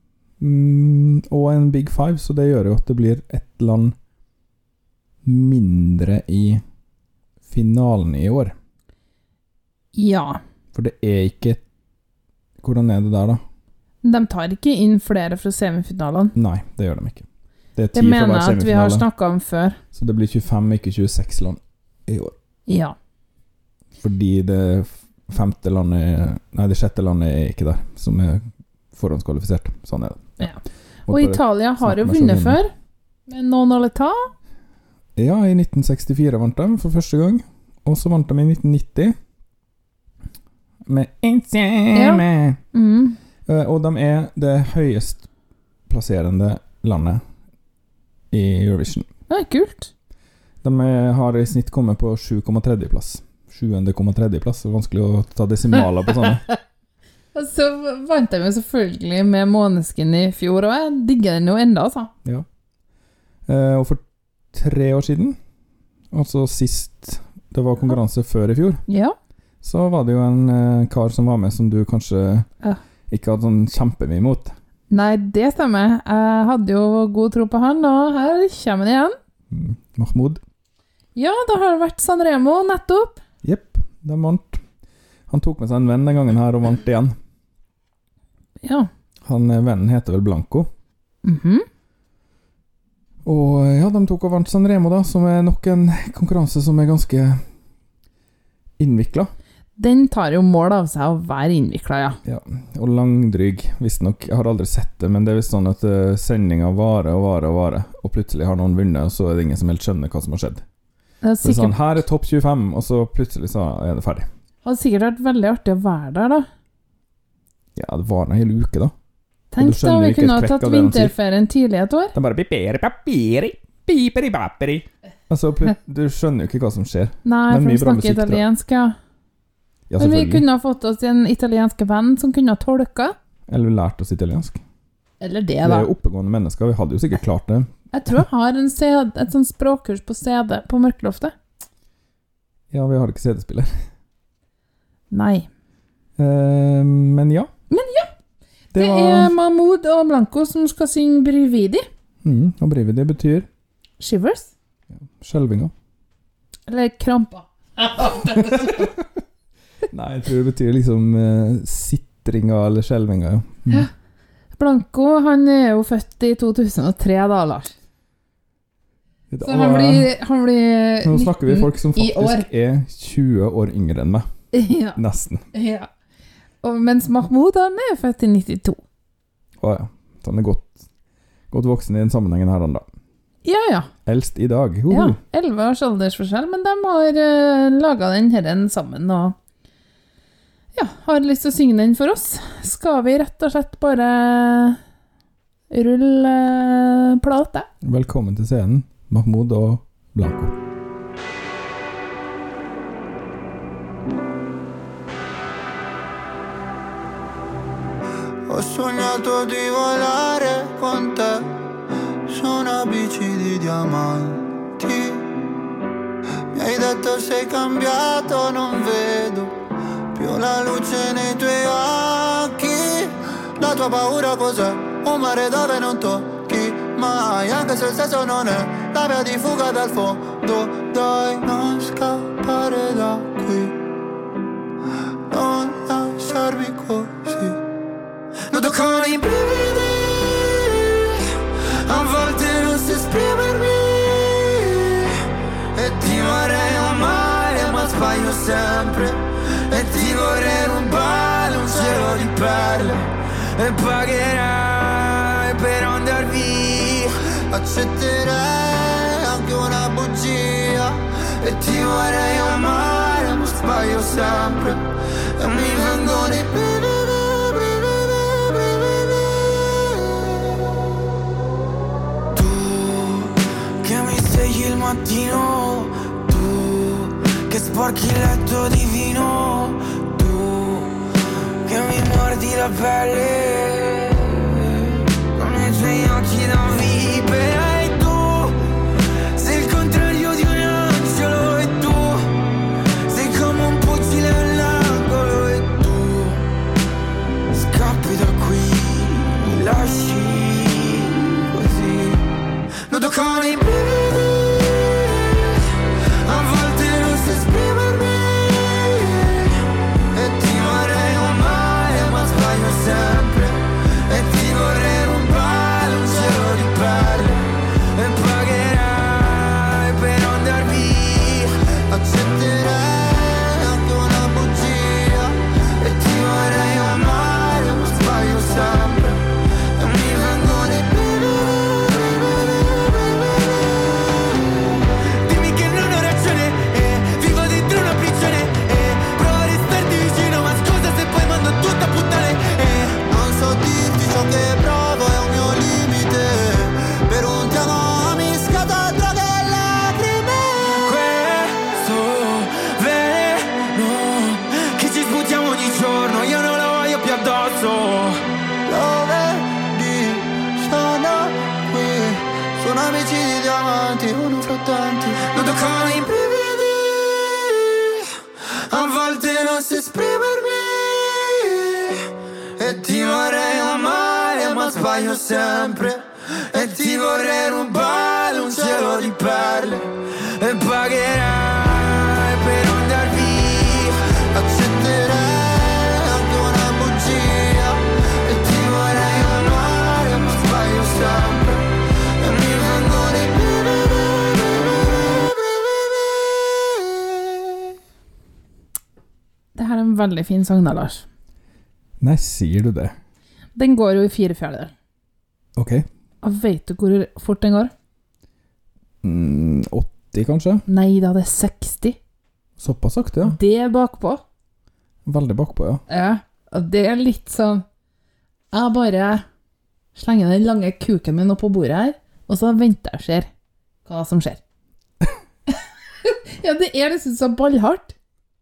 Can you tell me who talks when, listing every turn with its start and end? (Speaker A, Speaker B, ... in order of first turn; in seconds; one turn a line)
Speaker A: 0.4-4.0
Speaker A: 5.2-6.6
Speaker A: 7.5-8.6
Speaker B: 10.0-10.4
Speaker A: 10.7-11.6
Speaker A: 12.6-13.4
Speaker B: 14.0-16.3
Speaker A: 16.4-19.1
Speaker B: 17.9-19.8
Speaker A: 19.9-22.4
Speaker B: 22.7-23.0
Speaker A: 24.0-30.4
Speaker B: 30.4-32.7
Speaker A: 31.1-32.6
Speaker B: 33.3-34.3
Speaker A: 35.2-39.2
Speaker A: 40.9-42.6
Speaker B: 41.9-43.2
Speaker A: 43.5-45.3
Speaker A: 45.9-47.2
Speaker A: 48.3-49.1
Speaker B: 49.3-49.9
Speaker A: 50.6-56.4
Speaker B: 57.4-62.1
Speaker A: 63.5-64.0
Speaker A: 64.5-65.4
Speaker A: 66.1-68.8
Speaker B: 68.9-69.2
Speaker A: 69.6-72.5
Speaker A: 73.1-74.5
Speaker B: 74.9-79.2
Speaker A: 79.5-80.4
Speaker B: 81.2-83.2
Speaker A: 83.4-84.6
Speaker A: 85.3-87.2
Speaker B: 88.6-88.9
Speaker A: 89.2-90.7
Speaker B: 91.2-91.7
Speaker A: 93.2-97.4
Speaker A: 98.8-99.3
Speaker B: 99.8-102.2
Speaker A: 102.2-110.6
Speaker B: 111.2-112.0
Speaker A: 111.4-114.3
Speaker B: 114.6-116.5
Speaker A: 117.8-118.9
Speaker B: 119.5-122.1
Speaker A: 119.6-121.1
Speaker A: 122.1-128.4
Speaker B: 127.2-129.0
Speaker A: 129.9-130.4
Speaker B: 130.0-133.2
Speaker A: 133.5-134.6
Speaker B: 135.2-135.9
Speaker A: 135.6-137.7
Speaker B: 137.9-141.3
Speaker A: 142.7-143.7
Speaker B: 145.1-145.5
Speaker A: 146.2-147.5
Speaker B: 147.7-148.1
Speaker A: 148.7-149.3
Speaker B: 148.7-151.8
Speaker A: 152.2-153.5
Speaker B: 154.0-154.5
Speaker A: 154.9-155.7
Speaker B: 156.7-158.8
Speaker A: 158.3-159.1
Speaker A: 159.9-163.9
Speaker B: 164.6-167.7
Speaker A: 169.3-170.1
Speaker B: 169.4-172.5
Speaker A: 171.0-174.3
Speaker B: 174.5-175.0
Speaker A: 175.0-175.4
Speaker B: 175.5-175.9
Speaker B: 176.6-178.8
Speaker A: 179.6-180.8
Speaker A: 181.5-182.8
Speaker B: 183.4-183.9
Speaker A: 184.1-185.2
Speaker B: 184.9-189.3
Speaker B: 190.8-194.8
Speaker B: 195.7-197.7
Speaker A: 197.8-200.6
Speaker C: 208.5-211.5
Speaker C: 212.3-215.3
Speaker C: 216.5-219.6
Speaker C: 220.1-233.8
Speaker C: 235.3-237.6
Speaker C: 238.5-241.1
Speaker D: 238.7-239.0
Speaker C: 241.8-245.0
Speaker C: 245.8-253.0
Speaker D: 246.8-247.7
Speaker D: 249.7-250.7
Speaker D: 251.5-252.7
Speaker D: 253.6-257.1
Speaker C: 257.5-270.2
Speaker D: 272.3-273.3
Speaker D: 273.8-280.9
Speaker D: 281.6-288.6
Speaker D: 289.3-292.3
Speaker D: 293.1-296.4
Speaker D: 297.5-302.2
Speaker C: 302.9-304.6
Speaker D: 302.9-303.6
Speaker C: 306.3-309.3
Speaker D: 306.3-307.4
Speaker C: 310.1-317.4
Speaker D: 318.0-321.5
Speaker C: 321.9-329.2
Speaker C: 329.8-333.6
Speaker D: 330.0-330.3
Speaker D: 335.2-343.0
Speaker C: 343.0-350.8
Speaker D: 350.8-358.2
Speaker C: 358.7-367.9
Speaker D: 365.5-366.0
Speaker C: 368.7-371.9
Speaker C: 372.6-379.9
Speaker D: 373.1-374.7
Speaker D: 376.5-377.2
Speaker D: 377.9-379.1
Speaker D: 380.4-383.9
Speaker C: 384.3-391.7
Speaker C: 392.2-394.5
Speaker C: 395.3-395.6
Speaker B: 399.6-401.1
Speaker A: 402.0-403.0
Speaker B: 403.6-404.7
Speaker A: 405.6-405.9
Speaker B: 406.2-407.7
Speaker A: 409.0-410.6
Speaker B: 410.7-412.0
Speaker A: 412.6-413.4
Speaker B: 413.2-414.2
Speaker A: 415.1-415.8
Speaker B: 415.9-417.6
Speaker B: 418.5-419.2
Speaker B: 420.0-423.3
Speaker B: 423.9-424.4
Speaker B: 426.1-427.9